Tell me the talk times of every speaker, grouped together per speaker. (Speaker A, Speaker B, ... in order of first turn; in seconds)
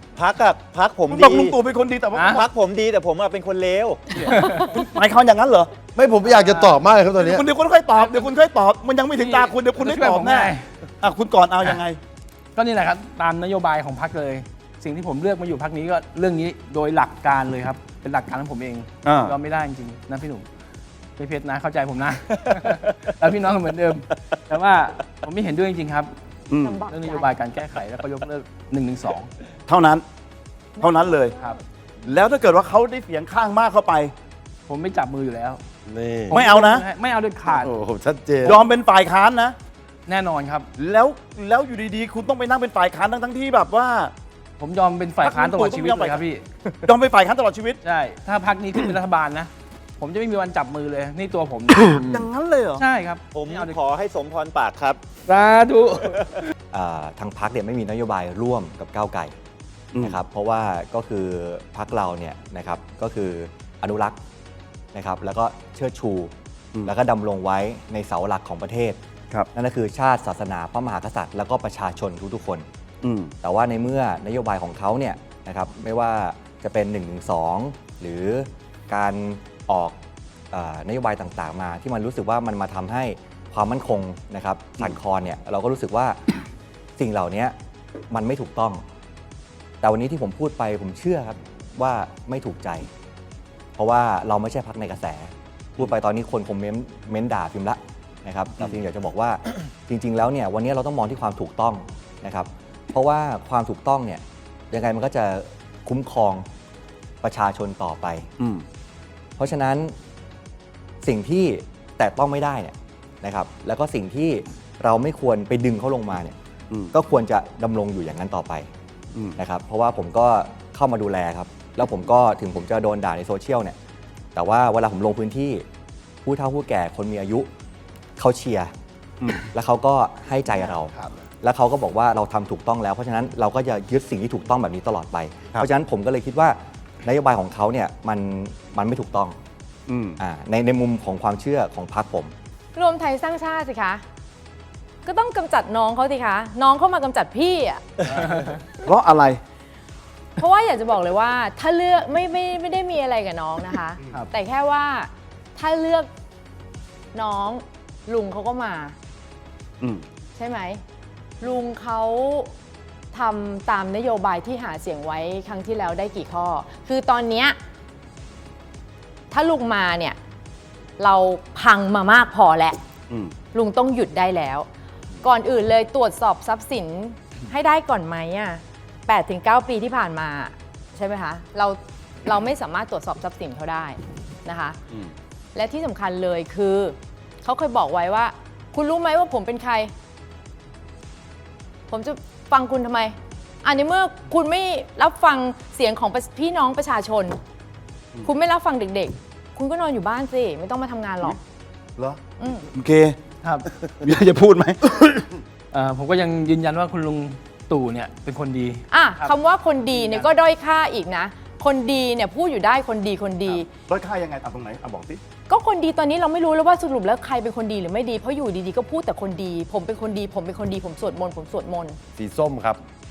Speaker A: 0.2-1.6, 2.2-4.3, 53.3-55.0
Speaker B: 1.1-2.3, 4.7-5.7, 7.1-12.0, 19.1-19.3, 26.5-26.8, 29.7-30.0, 30.8-31.3, 32.1-34.1, 36.4-36.8, 38.5-39.6, 40.8-44.1, 45.2-46.2, 46.9-47.8, 52.1-52.8, 73.0-73.3, 139.9-140.2, 148.8-149.4, 202.7-203.2, 204.0-205.3, 210.0-210.2, 213.5-215.2
Speaker C: 4.2-4.7, 6.2-6.8, 9.2-10.7, 12.6-20.4, 21.2-26.1, 26.9-29.3, 34.7-35.6, 36.3-37.7, 40.1-40.7, 44.6-46.5, 47.8-52.1, 52.8-53.8, 55.3-56.3, 148.2-148.5, 203.4-203.7, 205.7-208.8
Speaker D: 5.9-7.4, 35.9-36.4, 37.5-38.6, 222.2-222.8
Speaker E: 26.6-27.3, 30.8-31.6, 142.7-144.0, 145.0-147.8, 150.4-156.1, 157.1-159.0, 160.3-160.8, 161.4-162.5, 163.1-167.6, 169.3-170.2, 171.0-172.8, 173.5-174.7, 175.2-184.8, 185.5-189.9, 191.9-197.4, 198.2-201.4, 202.4-202.7, 208.9-213.7, 215.5-222.0
Speaker F: 56.7-59.3, 60.0-64.2, 64.9-66.3, 66.8-69.0, 69.5-72.7, 73.4-80.0, 80.5-86.3, 87.0-87.5, 88.1-88.8, 89.8-92.9, 93.8-106.5, 107.2-108.3, 109.4-109.9, 111.0-116.3, 116.9-118.7, 119.4-123.8, 124.3-125.7, 126.2-127.5, 128.2-128.7, 129.5-139.3, 140.2-142.3